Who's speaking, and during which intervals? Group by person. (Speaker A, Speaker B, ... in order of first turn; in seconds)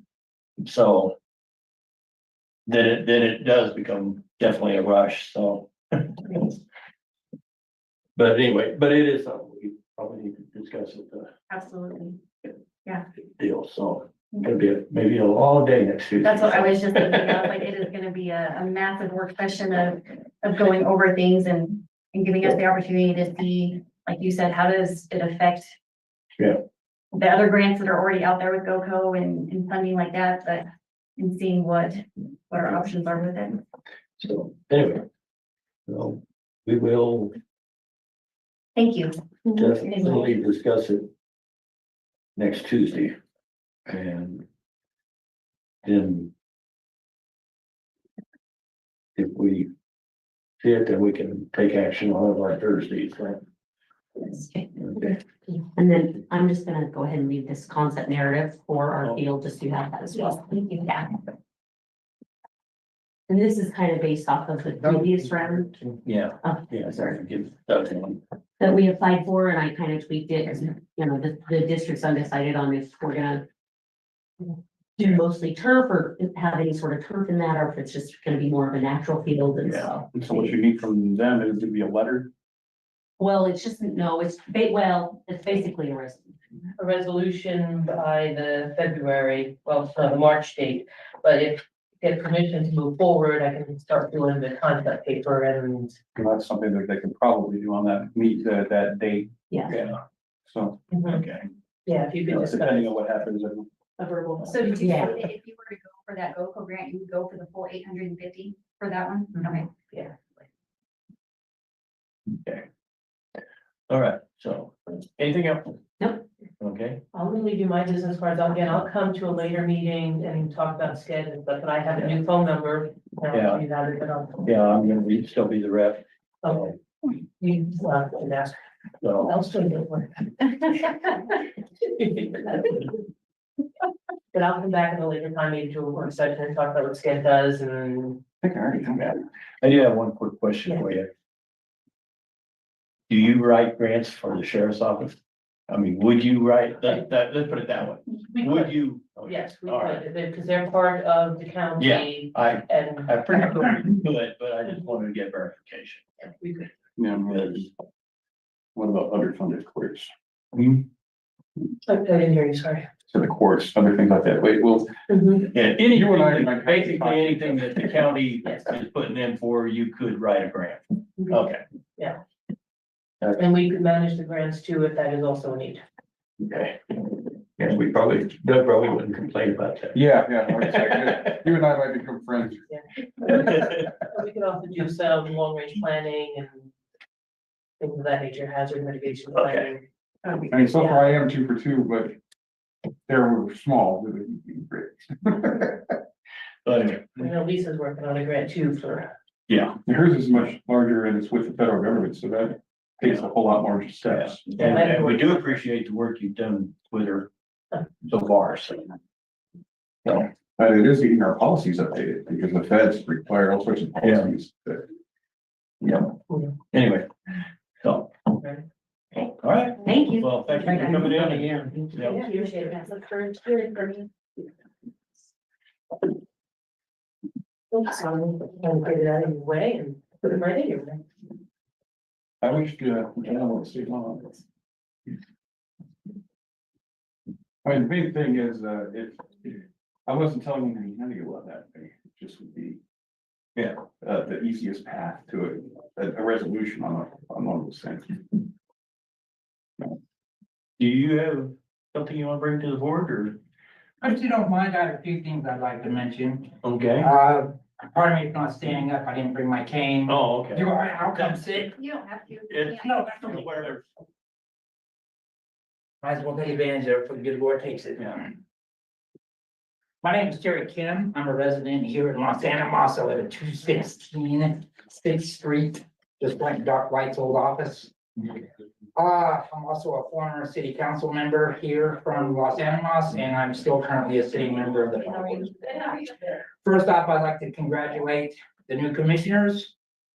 Speaker A: 0.6-1.2, 2.7-6.5, 8.2-11.3, 13.4-17.2, 34.2-35.0, 35.9-37.3, 39.5-41.1, 42.4-43.2, 43.9-44.5, 45.8-46.3, 49.2-49.7, 50.6-53.4, 66.0-68.2, 99.7-100.0, 101.1-101.5, 113.9-115.8, 116.6-117.0, 123.3-123.6, 124.4-126.8, 129.0-129.4, 138.9-141.1, 143.1-150.0, 151.8-156.1, 157.3-157.7, 160.5-160.8, 165.5-171.6, 176.4-177.0, 177.6-180.0, 180.5-181.4, 189.4-189.7, 196.7-197.3, 199.5-199.8, 204.0-207.3, 208.0-208.9, 214.0-214.3, 215.8-216.1, 216.7-217.1, 217.8-218.1, 219.4-222.2, 243.6-243.8, 250.8-253.4, 256.6-257.1, 260.1-261.4, 262.5-263.9
Speaker B: 11.5-12.2, 16.2-25.7, 27.1-30.7, 31.2-33.6, 38.8-40.3, 104.5-109.7, 219.9-220.8, 261.8-262.9
Speaker C: 54.3-61.2, 63.3-65.9, 66.4-67.2, 68.6-73.4, 75.0-80.5, 83.2-86.4, 99.5-99.8, 104.0-105.2
Speaker D: 80.1-82.3, 96.2-99.3, 100.5-100.8, 102.3-103.7, 138.4-139.1, 157.0-157.7, 158.8-160.1, 163.1-164.9, 165.8-168.1, 179.9-182.6, 190.5-192.2, 193.1-195.9, 199.8-204.5, 210.6-214.9, 232.4-234.4, 237.6-242.8, 244.0-248.4
Speaker E: 86.8-96.0, 100.9-101.2, 101.9-103.0, 109.3-110.4, 117.1-124.4, 127.4-128.6, 129.2-133.0, 134.3-138.2, 148.3-148.7, 149.3-153.1, 156.2-156.7, 161.9-162.9, 165.1-165.5, 173.4-175.8, 182.7-186.7, 187.8-191.1, 197.2-199.1, 204.5-205.6, 222.0-224.1, 227.7-231.0
Speaker F: 220.9-221.5, 254.0-261.7, 262.8-263.7, 266.0-268.4, 270.0-277.9, 279.0-285.9, 286.6-289.7